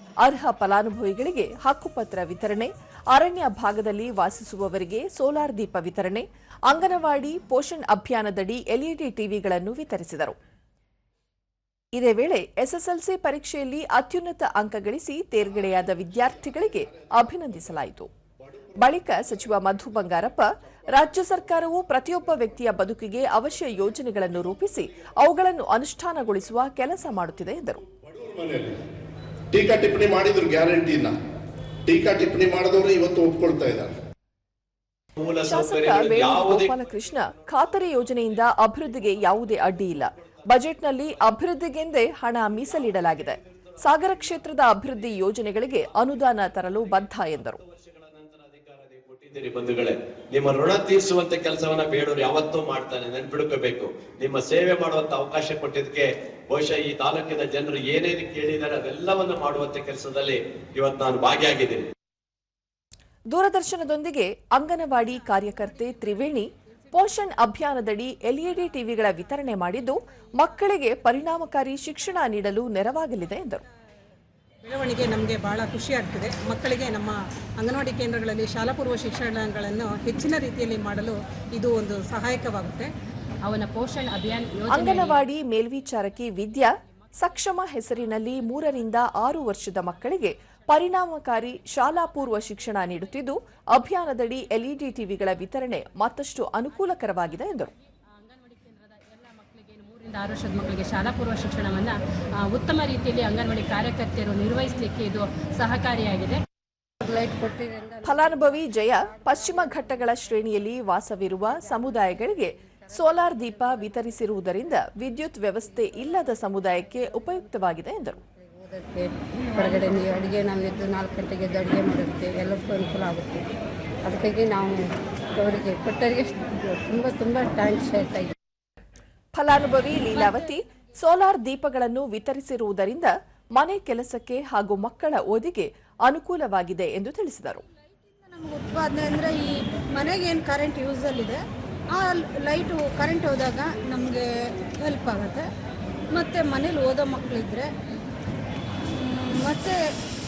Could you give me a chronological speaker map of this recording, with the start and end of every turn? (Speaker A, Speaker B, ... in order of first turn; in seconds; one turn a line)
Speaker A: 0.2-10.4
Speaker A: 11.9-18.1
Speaker B: 16.5-17.1
Speaker B: 18.4-22.5
Speaker A: 18.8-27.8
Speaker B: 23.9-25.0
Speaker B: 27.8-28.8
Speaker B: 29.5-31.1
Speaker B: 31.9-33.9
Speaker C: 35.2-36.7
Speaker A: 35.4-47.6
Speaker C: 46.0-61.9
Speaker A: 63.3-73.6
Speaker D: 74.8-76.8
Speaker D: 78.1-78.5
Speaker D: 79.1-80.7
Speaker E: 83.5-85.2
Speaker A: 84.7-97.7
Speaker E: 98.2-106.4
Speaker F: 107.0-110.7
Speaker A: 108.0-118.2
Speaker F: 111.4-114.7
Speaker F: 115.9-123.5
Speaker F: 124.0-124.8
Speaker F: 125.3-128.3
Speaker A: 129.3-137.6
Speaker G: 138.2-141.4
Speaker G: 141.9-144.3
Speaker G: 144.8-145.4
Speaker G: 146.1-147.7
Speaker G: 148.9-149.7